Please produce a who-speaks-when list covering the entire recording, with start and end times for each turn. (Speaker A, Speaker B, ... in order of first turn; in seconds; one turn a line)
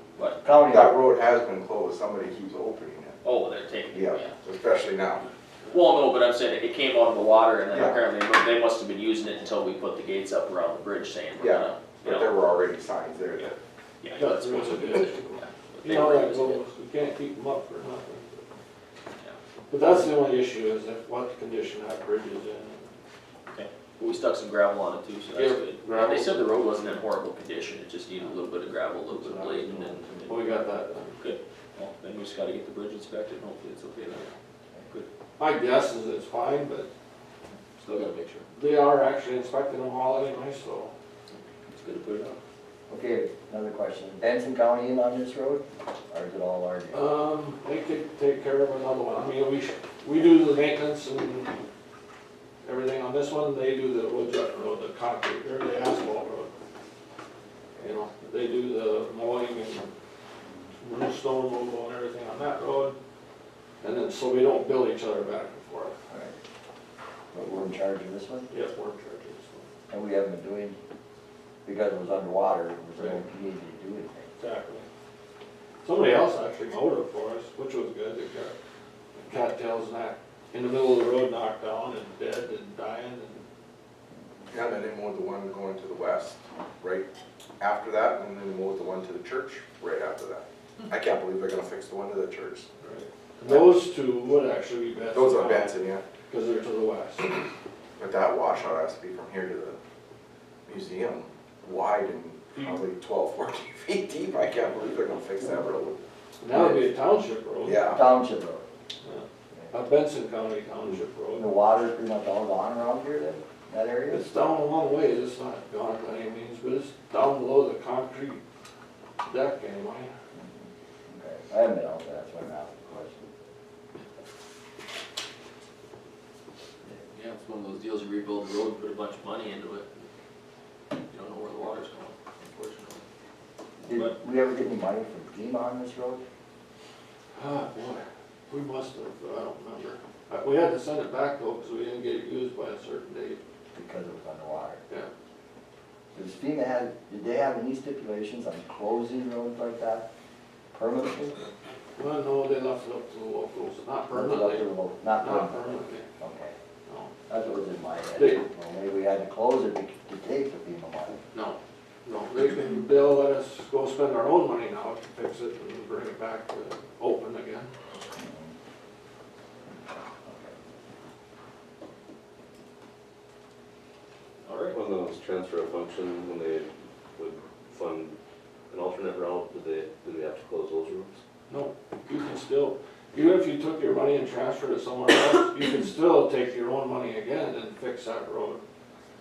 Speaker A: 0.4-0.9
Speaker B: 0.7-3.2
Speaker C: 3.2-4.4
Speaker B: 3.9-5.3
Speaker C: 5.7-12.3
Speaker B: 11.4-13.6
Speaker C: 14.0-16.6
Speaker D: 14.2-18.4
Speaker D: 19.7-22.9
Speaker C: 23.5-30.5
Speaker D: 25.3-26.5
Speaker A: 29.1-30.3
Speaker D: 30.3-31.2
Speaker C: 31.2-34.3
Speaker D: 35.4-36.9
Speaker C: 37.8-38.5
Speaker D: 38.5-40.9
Speaker C: 41.7-42.4
Speaker A: 42.9-47.1
Speaker D: 46.9-51.6
Speaker D: 52.6-56.5
Speaker D: 57.8-59.9
Speaker D: 60.8-63.0
Speaker D: 63.8-66.0
Speaker A: 66.1-66.3
Speaker A: 67.3-68.5
Speaker D: 68.5-69.7
Speaker A: 69.9-70.8
Speaker A: 71.7-74.3
Speaker D: 74.4-74.9
Speaker D: 75.8-78.5
Speaker D: 79.2-83.4
Speaker B: 84.5-87.1
Speaker B: 87.6-92.7
Speaker D: 92.8-95.8
Speaker B: 93.5-93.7
Speaker B: 95.1-96.0
Speaker D: 96.3-97.5
Speaker B: 98.0-99.8
Speaker B: 100.7-106.0
Speaker D: 102.5-102.8
Speaker D: 106.4-107.9
Speaker A: 106.5-106.9
Speaker B: 107.6-108.0
Speaker A: 107.9-108.6
Speaker D: 109.0-111.5
Speaker A: 111.3-114.3
Speaker D: 114.1-118.4
Speaker D: 119.2-120.1
Speaker A: 120.4-123.3
Speaker C: 127.1-130.1
Speaker C: 131.0-133.1
Speaker A: 133.8-136.2
Speaker D: 137.3-143.4
Speaker A: 143.7-144.8
Speaker A: 146.1-150.1
Speaker A: 150.7-151.4
Speaker D: 152.0-154.7
Speaker A: 154.1-156.6
Speaker D: 155.2-156.1
Speaker D: 156.9-157.1
Speaker A: 157.3-161.2
Speaker D: 161.3-167.7
Speaker A: 168.0-168.6
Speaker A: 170.2-170.6
Speaker C: 174.4-174.8
Speaker E: 174.7-178.2
Speaker E: 178.7-181.2
Speaker D: 181.5-188.6